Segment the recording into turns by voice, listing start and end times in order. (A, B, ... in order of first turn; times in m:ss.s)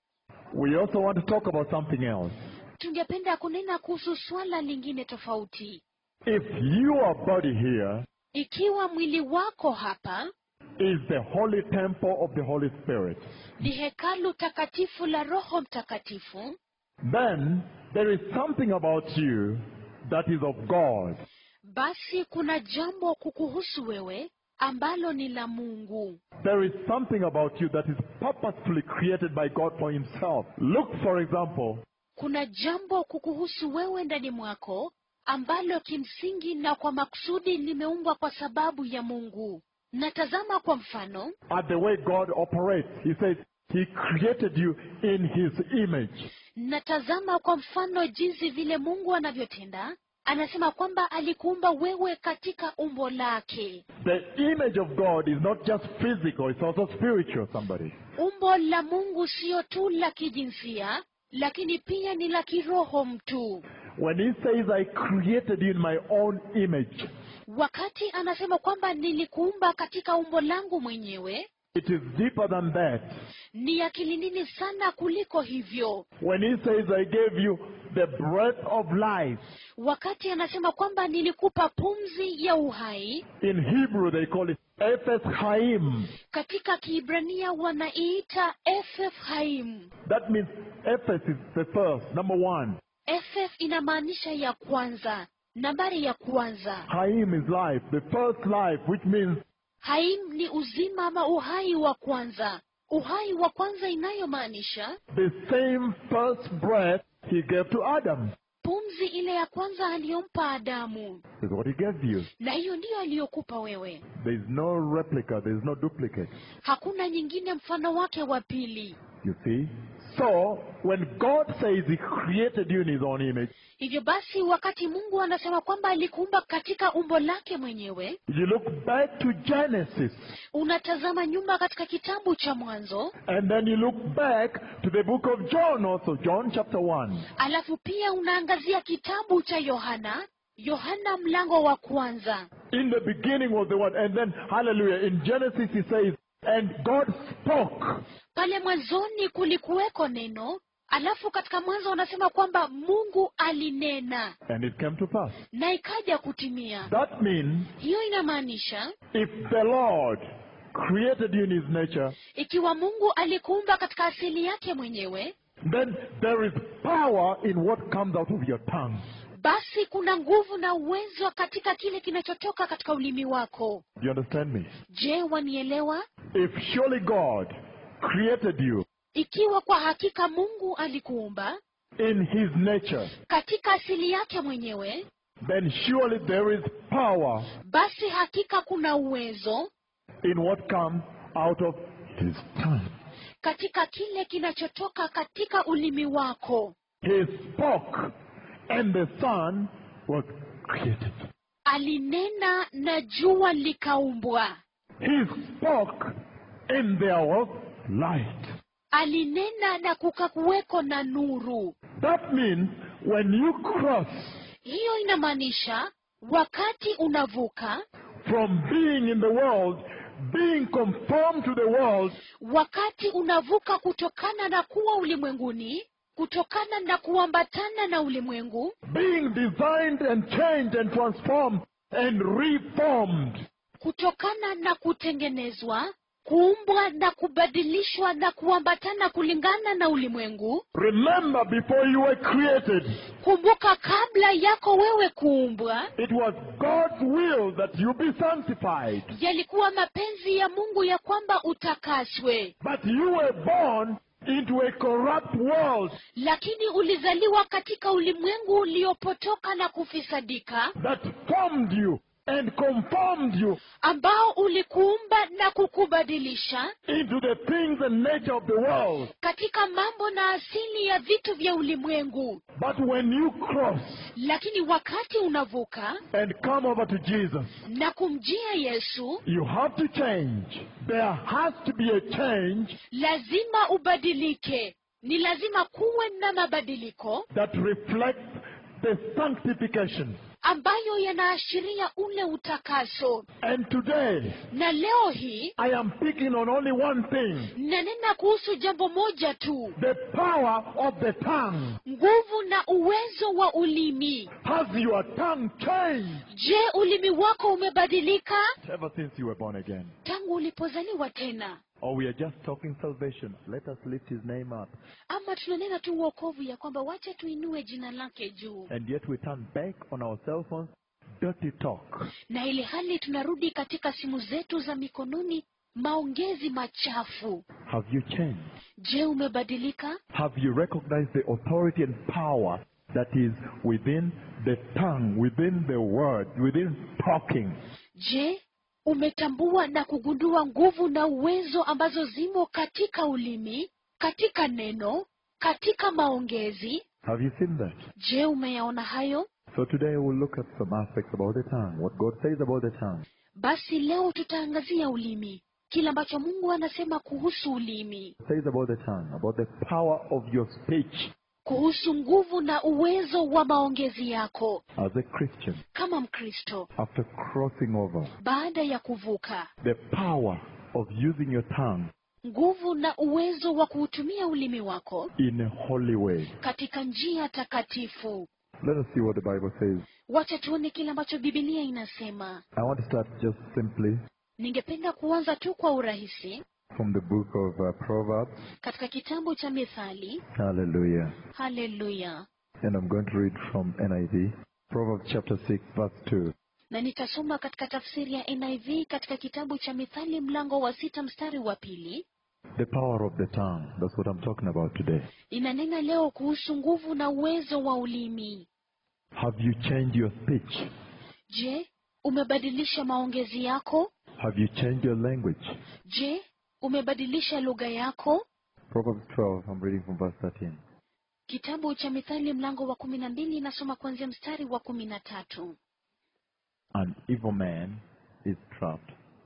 0:00.5-0:02.4 A
0:02.8-0:05.8 B
0:06.2-0:08.1 A
0:08.3-0:10.3 B
0:10.8-0:13.2 A
0:13.6-0:16.6 B
0:17.0-0:21.2 A
0:21.6-0:26.2 B
0:26.4-0:31.8 A
0:32.2-0:41.4 B
0:41.5-0:46.3 A
0:46.6-0:53.8 B
0:54.0-0:58.0 A
0:58.2-1:03.6 B
1:04.0-1:07.1 A
1:07.5-1:11.5 B
1:11.7-1:13.1 A
1:13.5-1:16.1 B
1:16.2-1:19.4 A
1:19.8-1:23.3 B
1:23.4-1:26.1 A
1:26.3-1:29.9 B
1:30.0-1:32.8 A
1:33.1-1:36.9 B
1:36.9-1:39.4 A
1:39.8-1:45.0 B
1:45.1-1:48.3 A
1:48.6-1:51.2 B
1:51.4-1:52.3 A
1:52.4-1:54.0 B
1:54.1-1:56.3 A
1:56.6-1:59.0 B
1:59.2-2:03.5 A
2:03.8-2:08.2 B
2:08.3-2:10.3 A
2:10.5-2:13.1 B
2:13.2-2:17.3 A
2:17.4-2:22.5 B
2:22.7-2:28.0 A
2:28.3-2:34.4 B
2:34.5-2:35.4 A
2:35.5-2:36.9 B
2:36.9-2:37.7 A
2:37.8-2:39.0 B
2:39.1-2:42.2 A
2:42.3-2:45.4 B
2:45.6-2:49.0 A
2:49.4-2:53.8 B
2:54.0-2:54.7 A
2:54.9-2:56.1 B
2:56.3-2:58.9 A
2:59.1-3:01.6 B
3:02.0-3:03.1 A
3:03.3-3:05.1 B
3:05.4-3:07.5 A
3:07.6-3:09.7 B
3:10.2-3:12.9 A
3:13.4-3:16.8 B
3:17.0-3:18.1 A
3:18.7-3:21.3 A
3:21.7-3:24.6 B
3:25.0-3:26.2 A
3:26.7-3:28.6 A
3:28.9-3:31.8 B
3:32.0-3:34.4 A
3:34.6-3:37.8 B
3:38.2-3:42.2 A
3:42.4-3:48.8 B
3:48.9-3:53.4 A
3:53.8-4:00.6 B
4:00.7-4:03.0 A
4:03.2-4:05.9 B
4:06.0-4:09.1 A
4:09.1-4:12.5 B
4:12.6-4:16.0 A
4:16.2-4:20.8 B
4:20.8-4:23.6 A
4:23.8-4:26.8 B
4:26.9-4:29.1 A
4:29.2-4:32.4 B
4:32.5-4:34.1 A
4:34.1-4:36.0 B
4:36.1-4:37.6 A
4:37.6-4:39.2 B
4:39.2-4:42.8 A
4:42.9-4:47.3 B
4:47.3-4:50.2 A
4:50.4-4:53.3 B
4:53.4-4:54.4 A
4:54.5-4:55.6 B
4:55.6-4:57.5 A
4:57.5-4:59.8 B
4:59.8-5:01.8 A
5:01.8-5:04.3 B
5:04.3-5:06.3 A
5:06.3-5:08.5 B
5:08.6-5:10.0 A
5:10.0-5:11.6 B
5:11.8-5:14.7 A
5:15.1-5:18.7 B
5:18.7-5:22.1 A
5:22.3-5:27.5 B
5:27.6-5:28.5 A
5:28.8-5:30.0 B
5:30.1-5:37.6 A
5:38.0-5:46.8 B
5:47.0-5:47.8 A
5:48.0-5:49.3 B
5:49.5-5:53.1 A
5:53.4-5:58.2 B
5:58.2-6:01.1 A
6:01.4-6:04.6 B
6:04.8-6:05.6 A
6:05.7-6:06.7 B
6:06.8-6:08.2 A
6:08.2-6:09.5 B
6:09.6-6:11.9 A
6:12.2-6:15.1 B
6:15.2-6:16.4 A
6:16.4-6:18.3 B
6:18.6-6:19.9 A
6:20.1-6:22.4 B
6:22.6-6:24.0 A
6:24.4-6:26.4 B
6:26.7-6:28.4 A
6:28.6-6:30.2 B
6:30.3-6:31.2 A
6:31.3-6:32.2 B
6:32.6-6:36.3 A
6:36.7-6:42.1 B
6:42.6-6:45.1 A
6:45.3-6:48.5 B
6:49.2-6:50.7 A
6:51.3-6:53.9 B
6:54.2-6:55.6 A
6:55.9-6:58.2 B
6:58.7-7:00.6 A
7:01.3-7:05.6 B
7:06.7-7:08.9 A